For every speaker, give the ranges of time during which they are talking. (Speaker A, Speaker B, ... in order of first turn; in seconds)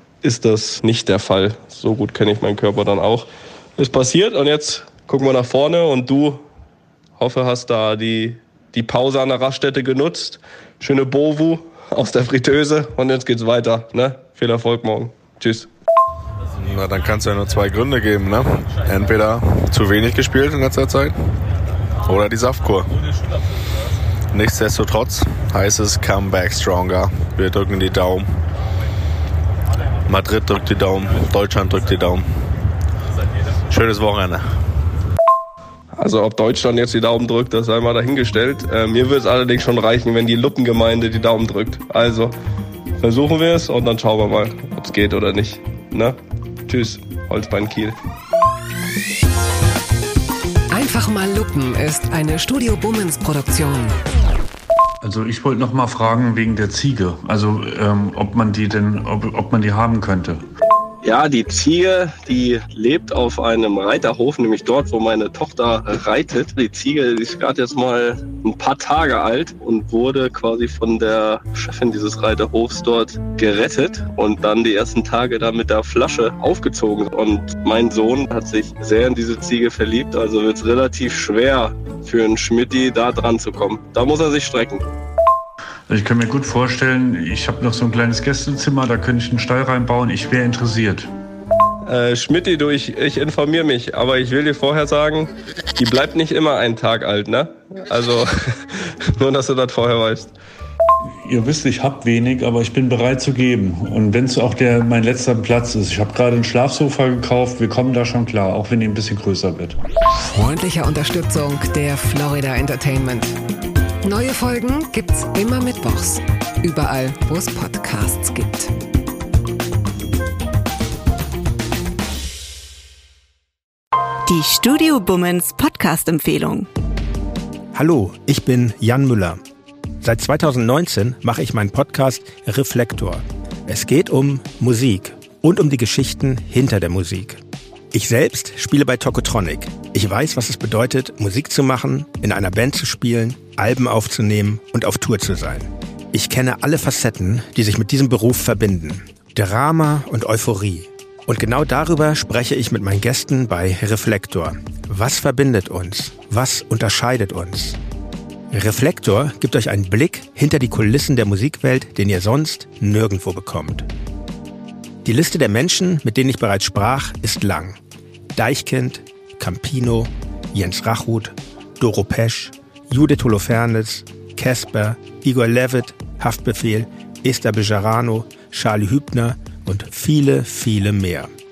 Speaker A: 0.2-6.4, 7.2-15.7, 36.0-42.4, 43.0-48.0, 61.0-84.9, 91.8-100.3
Speaker B: 16.6-21.2, 22.0-23.0, 24.3-28.3, 30.1-32.2, 33.7-34.4
Speaker C: 50.7-54.0, 110.3-113.3, 114.0-118.7
Speaker D: 55.0-60.4, 85.9-91.1, 101.3-109.8
Speaker E: 124.3-126.7
Speaker F: 127.7-129.4, 130.0-137.4, 137.9-157.8, 158.5-163.9, 165.1-167.8, 168.4-181.3